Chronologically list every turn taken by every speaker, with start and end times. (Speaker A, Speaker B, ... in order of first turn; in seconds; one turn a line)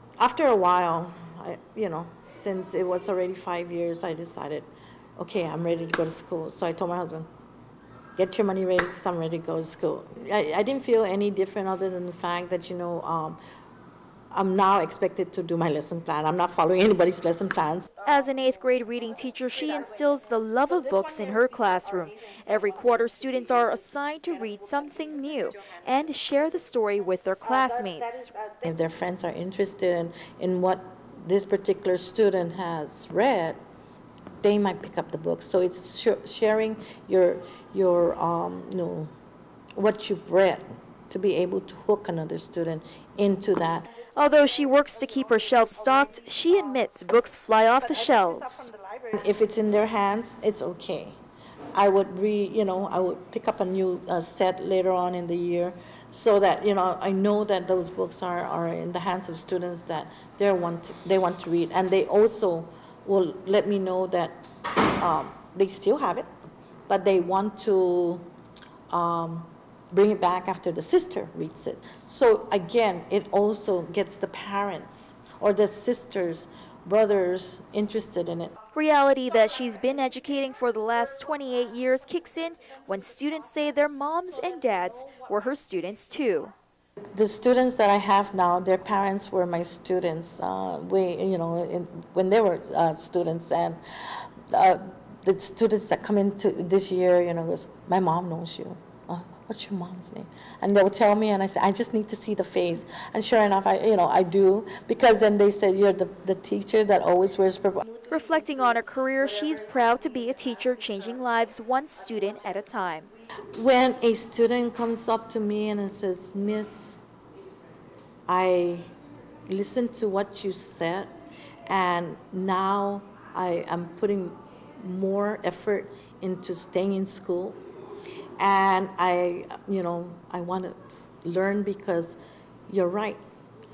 Speaker A: 0.2-7.3
Speaker A: 8.2-13.4
Speaker A: 14.3-17.9
Speaker B: 18.0-28.4
Speaker A: 28.5-33.6
Speaker A: 34.4-39.1
Speaker A: 39.8-44.1
Speaker B: 44.0-48.7
Speaker A: 48.9-51.2
Speaker A: 51.7-66.3
Speaker A: 66.9-68.3
Speaker A: 68.9-78.6
Speaker B: 78.7-86.5
Speaker A: 87.2-108.1
Speaker B: 108.1-113.1
Speaker A: 113.5-117.0
Speaker A: 118.3-118.9
Speaker A: 119.5-121.1
Speaker A: 121.7-127.6
Speaker A: 128.4-133.2